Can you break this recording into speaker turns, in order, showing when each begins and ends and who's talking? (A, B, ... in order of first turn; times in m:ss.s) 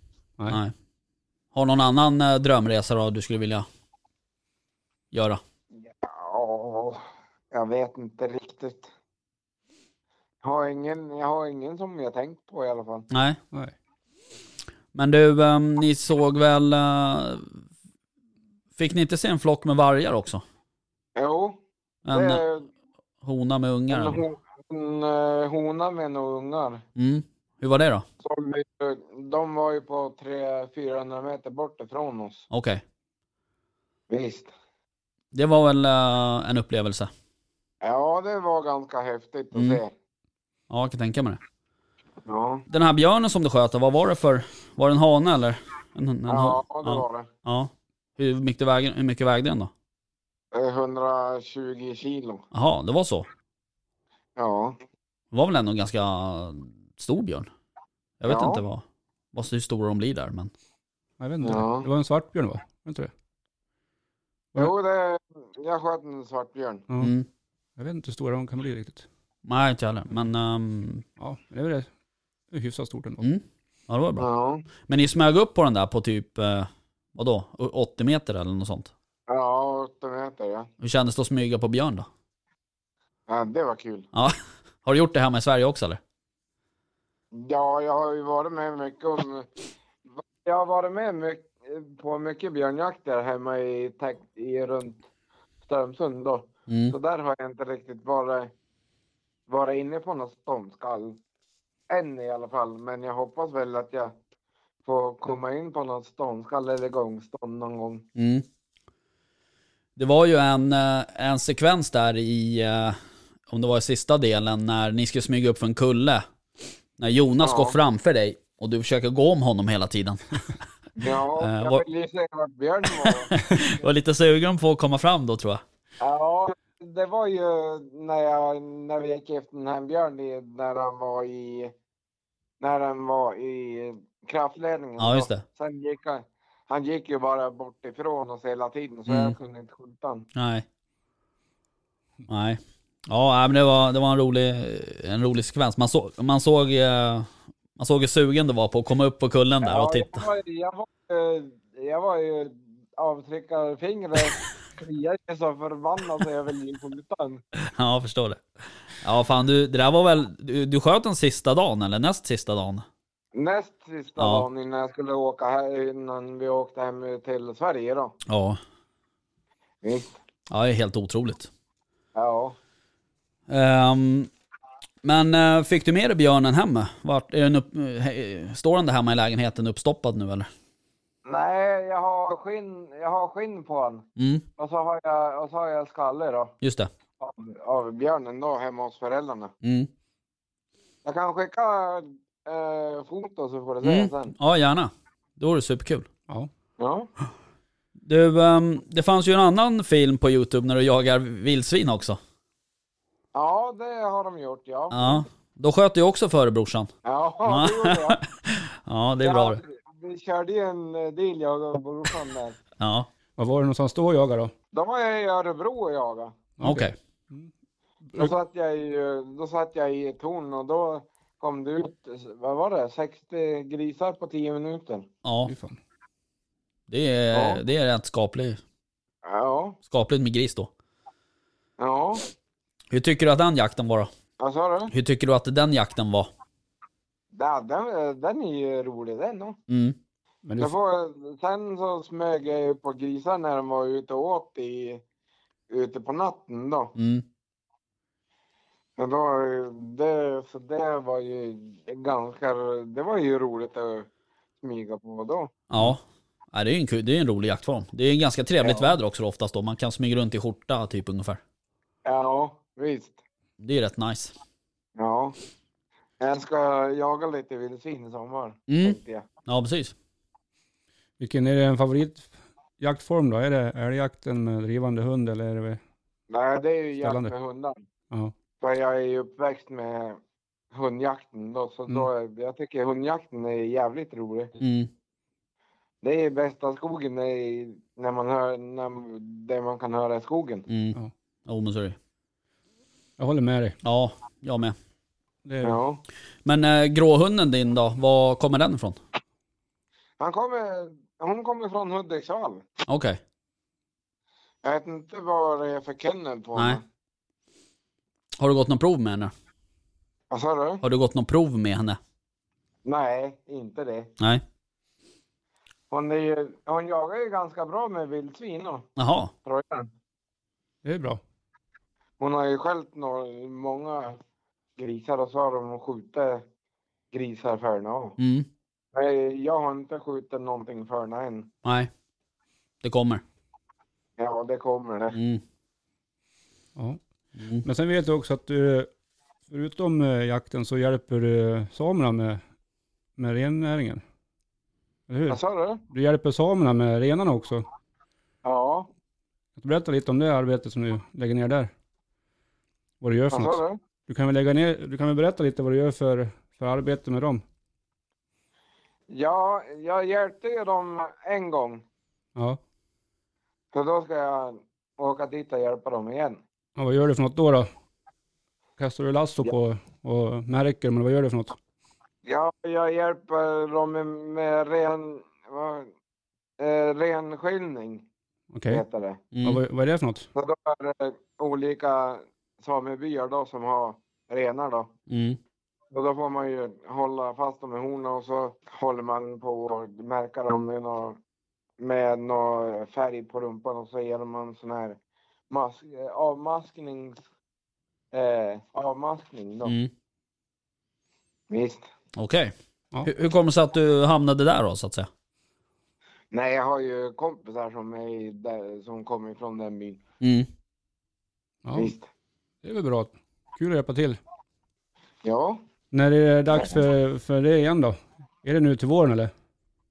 0:00.5-0:00.7 A
0:01.5-0:03.6 A
0:05.1-0:05.4 A
0:06.0-0:08.9 B
0:10.4-0:13.1 B
0:13.1-0:13.4 A
0:14.9-0:17.6 A
0:18.8-0:20.4 A
0:21.2-0:21.6 B
0:22.0-0:22.4 A
0:22.1-0:22.7 B
0:23.2-0:24.2 A
0:23.9-0:26.8 B
0:27.0-0:28.0 A
0:28.2-0:32.5 B
0:32.5-0:32.8 A
0:34.1-0:34.5 B
0:35.3-0:37.1 A
0:37.8-0:39.9 B
0:39.5-0:39.8 A
0:40.7-0:41.4 A
0:42.2-0:42.6 B
0:42.7-0:49.7 A
0:46.3-0:47.3 B
0:50.5-0:52.4 B
0:52.5-0:53.3 A
0:54.4-0:54.8 B
0:55.3-0:57.5 A
0:58.2-1:00.5 A
0:58.2-0:58.6 B
1:01.2-1:03.1 C
1:01.4-1:01.9 B
1:04.6-1:06.8 B
1:07.0-1:07.3 A
1:07.8-1:09.0 C
1:09.4-1:11.0 A
1:11.2-1:11.9 C
1:12.5-1:13.2 C
1:13.2-1:14.2 A
1:14.2-1:14.6 B
1:14.9-1:18.9 A
1:19.3-1:20.7 B
1:20.8-1:22.1 A
1:23.3-1:24.1 B
1:24.1-1:26.0 A
1:27.3-1:29.5 B
1:30.2-1:35.0 B
1:35.6-1:38.5 B
1:36.7-1:36.9 A
1:39.5-1:41.2 B
1:41.9-1:44.1 B
1:44.8-1:48.0 B
1:48.2-1:48.4 A
1:50.0-1:53.0 A
1:53.5-1:56.2 A
1:57.0-2:00.4 A
1:57.4-1:57.8 B
2:01.0-2:03.4 B
2:01.4-2:01.8 A
2:02.9-2:05.6 A
2:06.0-2:11.7 B
2:12.6-2:20.3 B
2:15.0-2:15.4 A
2:19.1-2:19.3 A
2:20.3-2:20.6 A
2:22.3-2:30.2 A
2:29.6-2:37.4 B
2:37.6-2:38.4 A
2:39.0-2:42.8 A
2:43.3-2:48.1 B
2:44.2-2:44.4 A
2:48.2-2:48.6 A
2:49.8-2:50.2 B
2:50.5-2:51.5 A
2:52.1-2:52.6 B
2:53.5-2:54.3 A
2:55.0-3:00.5 A
3:01.2-3:04.0 B
3:04.2-3:04.4 A
3:04.6-3:06.5 B
3:06.6-3:06.9 A
3:07.2-3:09.5 B
3:09.6-3:09.9 A
3:11.0-3:14.3 B
3:13.8-3:16.1 A
3:16.8-3:17.1 B
3:18.0-3:22.2 A
3:23.3-3:25.2 B
3:24.9-3:26.9 A
3:27.0-3:28.2 B
3:27.4-3:29.6 A
3:29.2-3:32.6 B
3:32.8-3:33.1 A
3:33.4-3:34.5 C
3:34.7-3:36.4 B
3:36.6-3:37.5 C
3:36.6-3:37.0 A
3:38.2-3:45.1 B
3:45.2-3:45.5 A
3:45.4-3:45.8 C
3:46.9-3:48.6 A
3:47.3-3:47.6 B
3:49.2-3:49.8 B
3:49.9-3:50.7 A
3:51.8-3:52.2 B
3:52.9-3:54.1 A
3:54.4-3:54.9 B
3:54.9-3:56.3 A
3:57.3-3:59.6 B
3:59.7-4:00.0 A
4:00.4-4:00.7 C
4:00.6-4:05.0 B
4:05.7-4:06.9 B
4:07.0-4:07.2 A
4:09.0-4:14.1 B
4:14.6-4:15.5 B
4:15.7-4:16.0 A
4:16.5-4:21.4 A
4:18.6-4:18.9 B
4:22.0-4:23.2 B
4:23.6-4:24.3 A
4:25.0-4:25.4 B
4:26.2-4:29.2 B
4:28.7-4:29.9 A
4:31.2-4:32.3 C
4:32.8-4:35.8 C
4:36.3-4:37.8 B
4:37.0-4:37.3 C
4:38.6-4:40.2 B
4:40.7-4:44.5 B
4:44.6-4:44.9 A
4:46.0-4:50.7 B
4:50.7-4:52.0 A
4:53.2-4:53.8 C
4:53.8-4:54.7 A
4:55.4-4:55.8 C
4:55.6-4:56.0 B
4:56.4-4:59.0 A
5:00.2-5:02.6 B
5:02.9-5:03.2 A
5:04.6-5:06.8 B
5:08.4-5:09.3 A
5:10.3-5:10.8 B
5:10.8-5:12.0 A
5:12.8-5:14.1 B
5:15.9-5:18.9 B
5:19.0-5:19.3 A
5:19.4-5:19.9 B
5:20.8-5:21.2 C
5:22.2-5:24.2 B
5:24.8-5:26.4 B
5:27.1-5:28.2 B
5:28.2-5:28.5 A
5:28.9-5:31.5 B
5:31.6-5:31.9 A
5:32.8-5:33.2 A
5:34.2-5:35.2 B
5:35.1-5:35.4 A
5:37.4-5:37.6 A
5:37.6-5:38.9 C
5:39.5-5:42.4 C
5:43.2-5:44.0 C
5:45.1-5:47.6 C
5:45.3-5:45.8 B
5:48.4-5:48.9 B
5:49.6-5:51.7 C
5:53.0-5:57.4 C
5:53.3-5:53.8 B
5:59.1-6:01.8 B
6:03.7-6:06.4 B
6:06.8-6:07.7 C
6:08.8-6:11.6 C
6:12.2-6:15.9 B
6:16.6-6:18.0 B
6:18.5-6:18.8 C
6:18.7-6:19.2 B
6:19.3-6:19.6 A
6:19.4-6:20.3 C
6:20.3-6:24.9 B
6:25.1-6:25.4 A
6:25.9-6:31.2 B
6:31.8-6:35.0 B
6:35.5-6:37.2 B
6:38.1-6:39.7 B
6:39.6-6:39.9 A
6:41.5-6:41.9 B
6:42.2-6:42.5 A
6:43.0-6:45.1 A
6:46.3-6:50.0 B
6:50.2-6:50.5 A
6:51.6-6:51.9 C
6:51.7-6:52.1 B
6:52.6-6:54.2 C
6:55.2-6:55.6 B
6:55.9-6:59.3 C
6:56.5-6:56.8 B